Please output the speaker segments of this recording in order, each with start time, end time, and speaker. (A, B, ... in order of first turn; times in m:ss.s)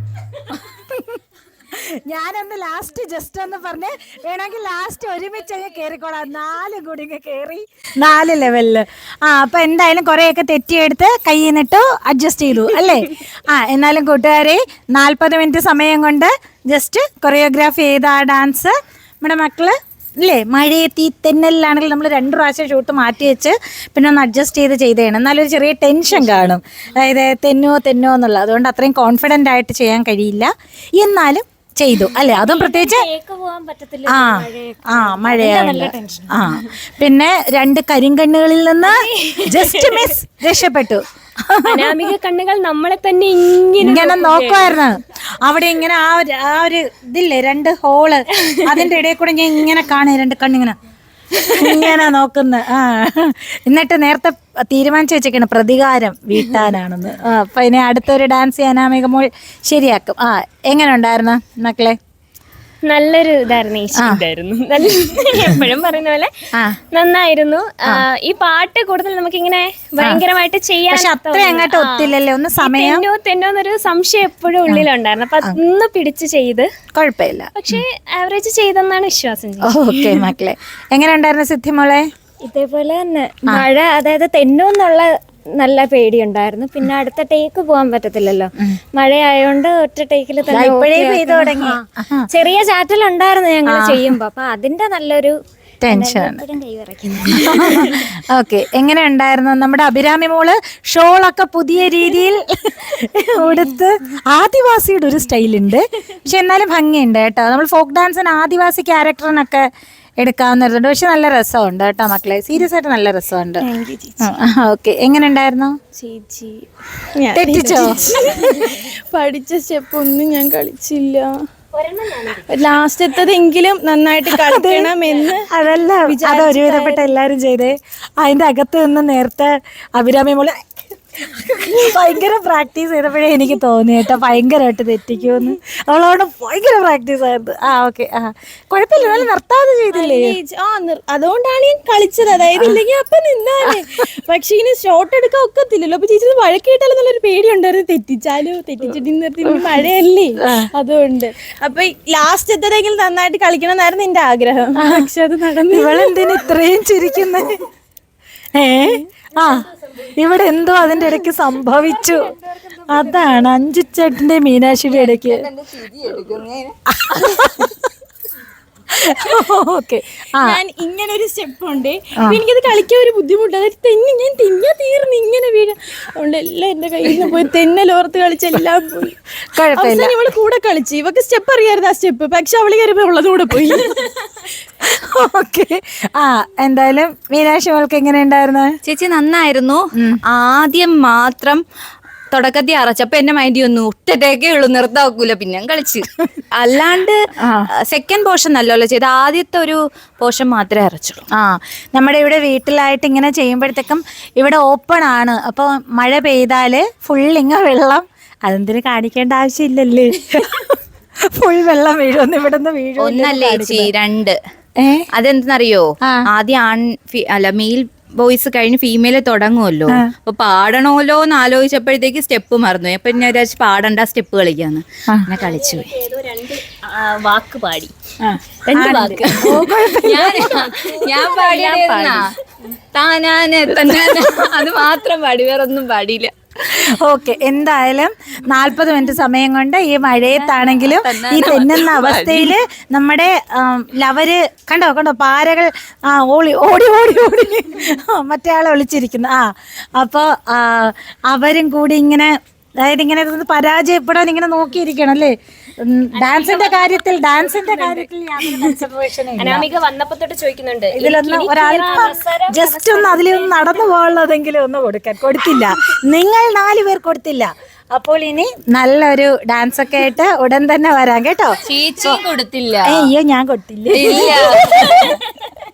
0:00.5-0:01.2 A
0:01.7-0:33.1 A
0:32.2-0:36.4 B
0:34.1-0:42.0 A
0:39.0-0:39.4 B
0:39.6-0:40.1 C
0:41.6-0:44.8 C
0:43.8-0:50.8 A
0:51.3-1:02.0 A
1:02.9-1:06.3 C
1:04.0-1:04.2 A
1:06.9-1:16.7 C
1:10.9-1:13.1 A
1:16.9-1:17.8 A
1:17.6-1:20.3 C
1:19.6-1:22.1 A
1:22.4-1:35.4 B
1:30.5-1:32.3 A
1:33.7-1:34.2 A
1:35.8-1:36.4 A
1:35.9-1:37.9 B
1:37.3-1:49.7 A
1:50.2-1:53.6 A
1:53.6-1:54.2 D
1:54.2-1:55.8 A
1:56.0-2:01.4 D
1:57.3-1:58.8 A
2:01.7-2:02.6 C
2:02.5-2:05.5 D
2:04.3-2:20.4 A
2:06.1-2:07.1 D
2:19.0-2:19.3 D
2:19.9-2:36.3 D
2:30.4-2:30.7 A
2:34.8-2:35.1 A
2:35.7-2:37.6 A
2:38.6-2:42.4 A
2:42.9-2:45.4 A
2:44.9-2:46.8 E
2:46.9-2:47.8 A
2:48.9-2:50.6 A
2:50.4-2:59.2 D
2:52.2-2:52.4 A
2:59.5-3:00.2 A
2:59.7-3:04.0 D
3:04.8-3:08.8 A
3:08.9-3:11.6 E
3:12.3-3:17.2 E
3:17.4-3:17.7 A
3:17.9-3:21.2 E
3:21.3-3:33.9 A
3:33.0-3:34.4 E
3:34.8-3:35.1 A
3:35.1-3:45.9 E
3:45.3-3:47.9 C
3:48.2-3:50.5 A
3:48.6-3:52.3 C
3:49.1-3:52.3 E
3:52.9-3:56.3 E
3:56.7-4:19.7 A
4:00.4-4:02.5 E
4:16.2-4:18.8 C
4:19.4-4:23.8 C
4:20.9-4:32.2 A
4:31.6-4:33.1 E
4:32.9-4:35.2 A
4:33.9-4:35.0 E